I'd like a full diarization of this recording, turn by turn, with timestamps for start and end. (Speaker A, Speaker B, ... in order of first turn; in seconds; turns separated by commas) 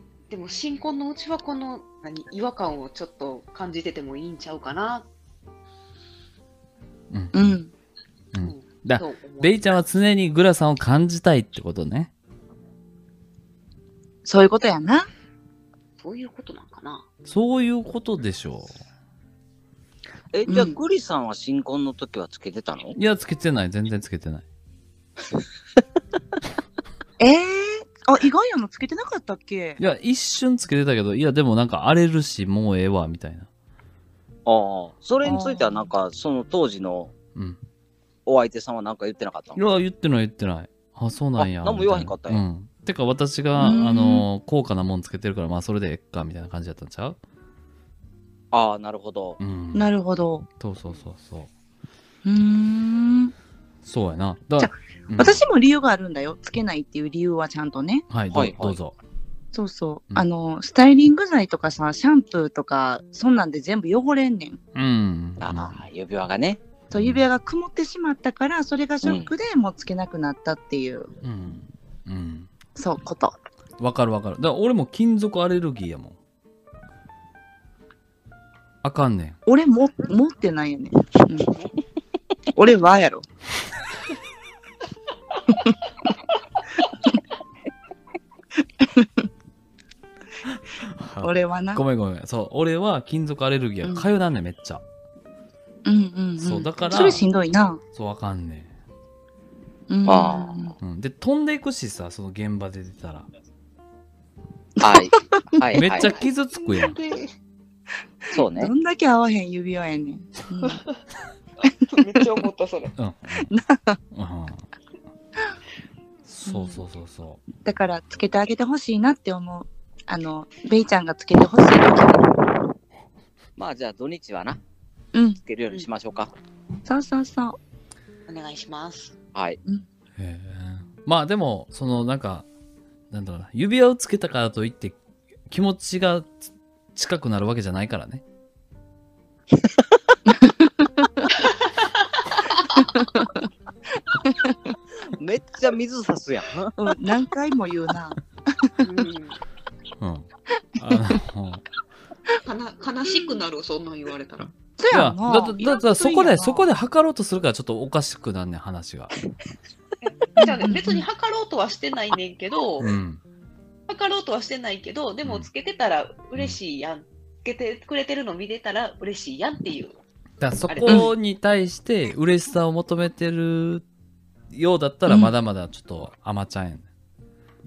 Speaker A: 0.3-5.1, Speaker B: 7.1-7.6, Speaker C: 7.3-7.7, Speaker B: 8.3-12.1, Speaker A: 8.4-9.6, Speaker C: 14.2-15.1, Speaker A: 16.0-17.1, Speaker B: 17.2-18.8, Speaker D: 20.3-22.9, Speaker C: 20.5-20.8, Speaker B: 22.9-24.4, Speaker C: 27.2-29.8, Speaker B: 29.8-33.5, Speaker D: 34.5-37.1, Speaker C: 35.2-35.9, Speaker D: 38.2-39.6, Speaker B: 39.5-47.2, Speaker D: 41.4-42.4, Speaker C: 43.6-44.3, Speaker D: 48.5-49.4, Speaker B: 49.4-49.9, Speaker C: 49.7-50.5, Speaker B: 50.6-51.5, Speaker C: 52.2-53.3, Speaker B: 53.8-55.4, Speaker C: 54.6-58.0, Speaker B: 58.1-58.9, Speaker D: 58.3-58.8, Speaker C: 59.5-64.6, Speaker B: 64.7-65.8, Speaker D: 65.4-66.6, Speaker C: 66.9-71.1, Speaker B: 66.9-67.2, Speaker D: 69.0-69.3, Speaker B: 71.2-72.5, Speaker C: 72.8-73.3, Speaker B: 73.8-76.2, Speaker B: 78.8-79.4, Speaker C: 79.5-81.5, Speaker C: 82.5-83.2, Speaker C: 88.8-89.1, Speaker B: 90.5-94.8, Speaker C: 91.2-91.8, Speaker C: 95.8-97.8, Speaker B: 96.4-97.2, Speaker B: 97.9-98.7, Speaker C: 99.9-100.7, Speaker D: 100.1-100.6, Speaker B: 100.8-103.3, Speaker D: 104.8-106.2, Speaker C: 104.8-105.8, Speaker B: 105.7-107.0, Speaker A: 106.1-107.3, Speaker D: 108.3-108.7, Speaker C: 108.5-110.8, Speaker A: 111.9-112.9, Speaker B: 113.0-113.5, Speaker C: 113.4-114.0, Speaker B: 114.1-114.7, Speaker B: 116.2-117.4, Speaker C: 116.5-116.8, Speaker C: 117.6-122.3, Speaker D: 123.5-124.6, Speaker C: 125.1-125.4, Speaker D: 125.4-126.3, Speaker C: 126.8-127.6, Speaker A: 128.3-129.1, Speaker B: 130.2-132.4, Speaker B: 133.1-134.9, Speaker B: 135.5-138.2, Speaker C: 142.7-143.2, Speaker C: 144.3-144.5, Speaker D: 145.2-146.7, Speaker C: 146.8-148.7, Speaker A: 148.8-149.4, Speaker B: 150.0-151.6, Speaker A: 152.4-154.5, Speaker C: 154.8-156.7, Speaker B: 154.9-159.2, Speaker A: 160.0-162.9, Speaker C: 160.4-161.0, Speaker B: 162.8-163.2, Speaker A: 163.9-170.0, Speaker B: 165.2-165.5, Speaker B: 170.4-173.8, Speaker A: 170.7-171.0, Speaker C: 170.8-171.1, Speaker B: 174.5-176.9